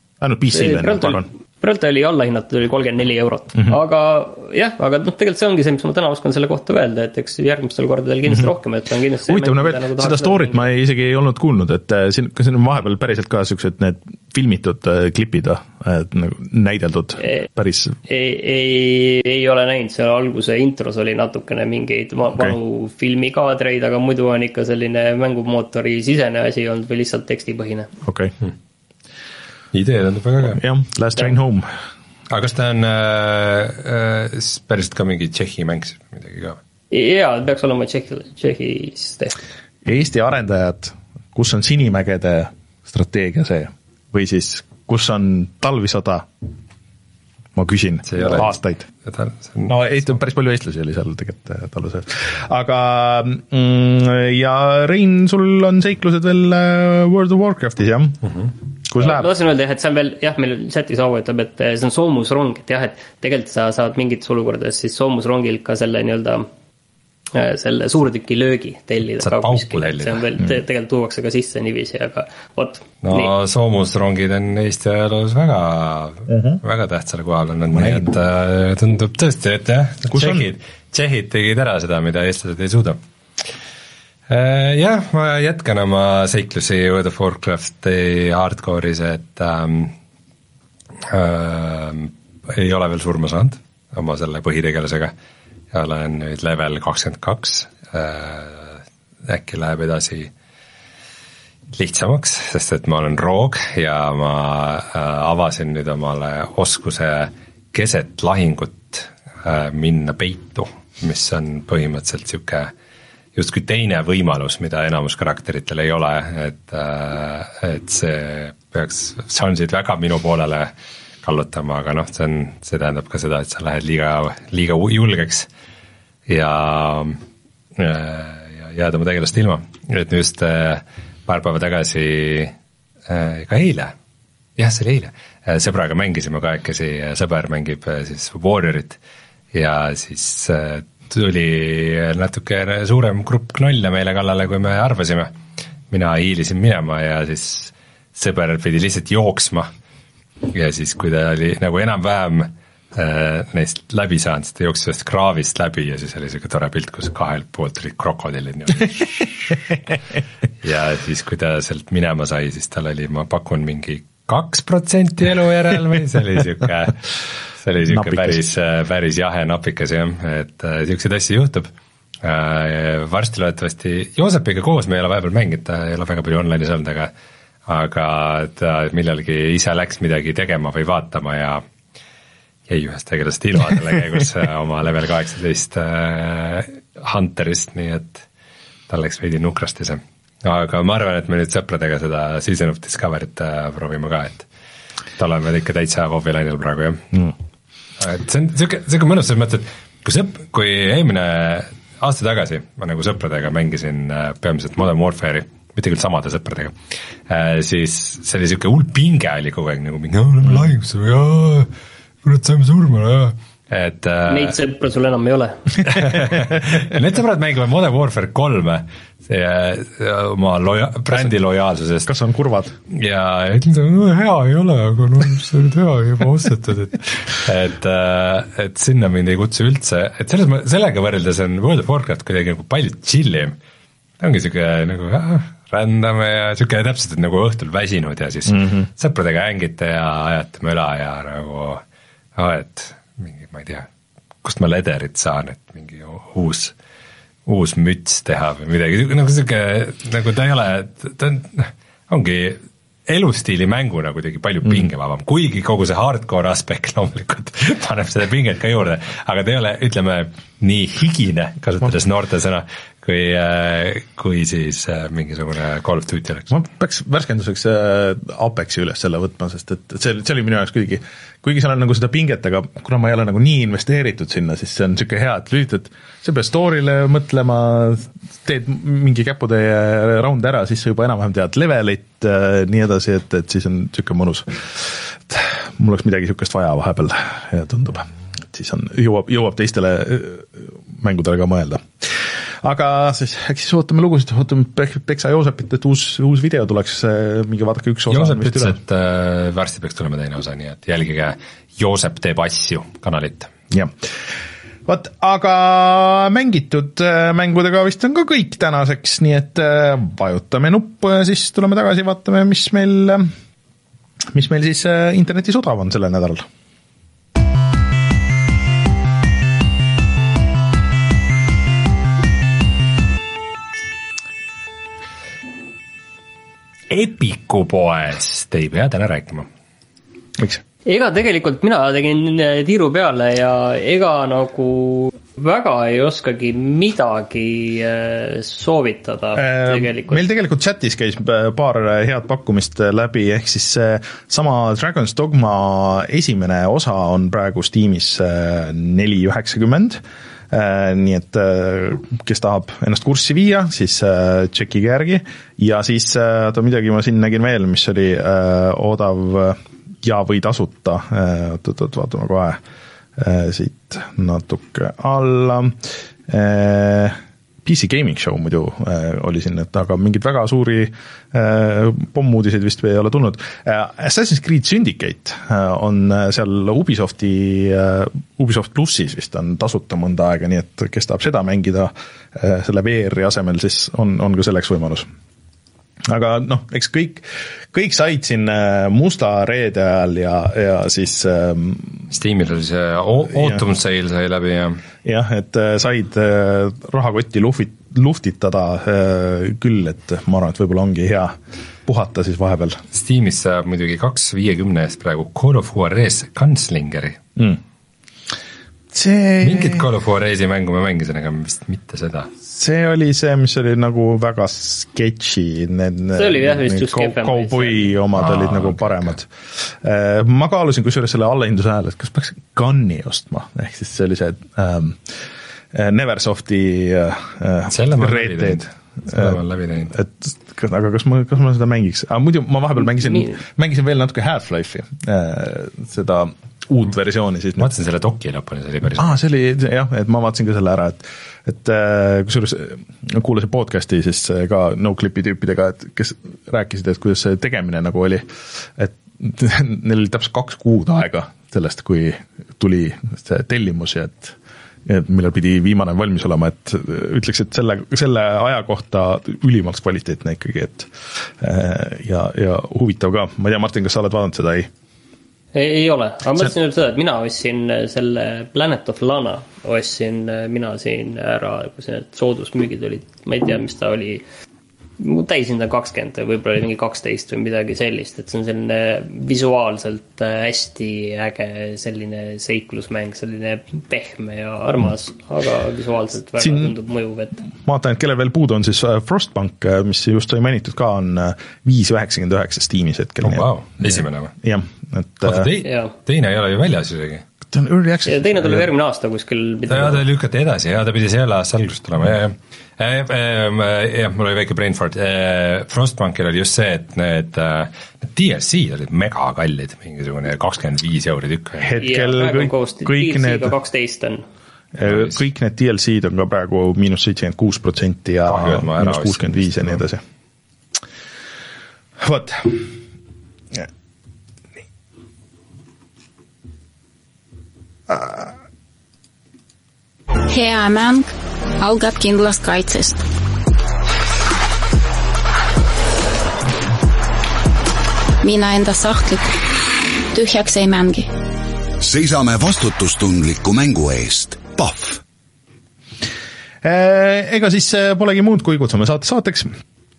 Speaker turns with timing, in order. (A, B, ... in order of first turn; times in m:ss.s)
0:00.2-0:01.3 A
0:00.5-0:10.7 B
0:09.3-0:18.0 A
0:18.1-0:27.9 B
0:28.0-0:28.3 A
0:29.7-0:30.6 C
0:30.5-0:31.7 A
0:32.3-0:36.6 C
0:36.9-0:39.4 B
0:39.8-0:46.3 A
0:47.6-0:48.8 A
0:48.1-0:49.7 C
0:49.6-0:58.2 A
0:58.8-0:59.3 A
0:59.0-1:06.5 B
1:07.3-1:13.3 B
1:09.2-1:10.2 C
1:13.0-1:23.0 C
1:16.3-1:16.6 A
1:17.7-1:18.1 A
1:20.1-1:20.5 A
1:24.3-1:29.9 C
1:31.0-1:35.1 C
1:35.7-1:40.3 C
1:41.7-1:52.7 C
1:53.3-2:00.7 C
2:01.2-2:05.5 C
2:06.3-2:07.2 C
2:07.8-2:12.5 C
2:13.1-2:13.9 C
2:14.6-2:19.0 C
2:19.5-2:25.3 C
2:25.9-2:29.7 C
2:30.5-2:39.4 C
2:40.6-2:51.7 C
2:47.9-2:48.4 A
2:52.2-2:57.1 C
2:57.7-3:01.6 C
3:02.7-3:08.2 C
3:08.9-3:14.4 C
3:15.2-3:17.2 C
3:18.0-3:26.8 C
3:27.3-3:31.7 C
3:32.2-3:34.5 C
3:34.3-3:35.9 B
3:35.8-3:42.1 C
3:42.1-3:42.7 A
3:42.9-3:53.6 C
3:54.2-4:01.8 C
4:02.4-4:03.9 C
4:04.4-4:06.7 C
4:07.4-4:26.5 C
4:26.5-4:58.8 A
4:58.1-5:03.5 C
5:04.9-5:13.3 A
5:14.3-5:16.4 A
5:26.9-5:29.5 C
5:30.8-5:40.2 B
5:39.3-6:02.6 A
6:03.2-6:25.0 A
6:26.0-6:32.0 A
6:32.1-6:34.8 C
6:35.0-6:41.3 A
6:41.8-6:42.8 A
6:42.9-6:47.2 C
6:48.9-6:49.8 A
6:49.4-6:52.3 C
6:52.4-7:05.1 A
6:56.1-6:57.9 B
6:58.2-6:59.1 C
7:05.7-7:09.4 A
7:07.7-7:09.9 C
7:09.9-7:17.7 A
7:17.6-7:19.2 C
7:19.0-7:44.7 A
7:45.5-7:54.2 B
7:55.0-8:07.4 B
8:06.4-8:06.7 A
8:07.6-8:15.5 A
8:13.2-8:14.3 C
8:15.2-8:17.2 C
8:15.6-8:15.9 B
8:17.5-8:18.7 A
8:18.0-8:20.0 B
8:19.7-8:31.8 C
8:31.6-8:33.5 A
8:31.8-8:34.2 B
8:34.7-8:40.0 A
8:34.8-8:35.2 C
8:38.3-8:39.8 C
8:42.0-8:42.7 A
8:47.9-8:48.3 A
8:50.3-8:53.0 D
8:58.2-8:59.3 D
9:00.1-9:01.1 D
9:01.8-9:05.0 E
9:06.6-9:09.5 A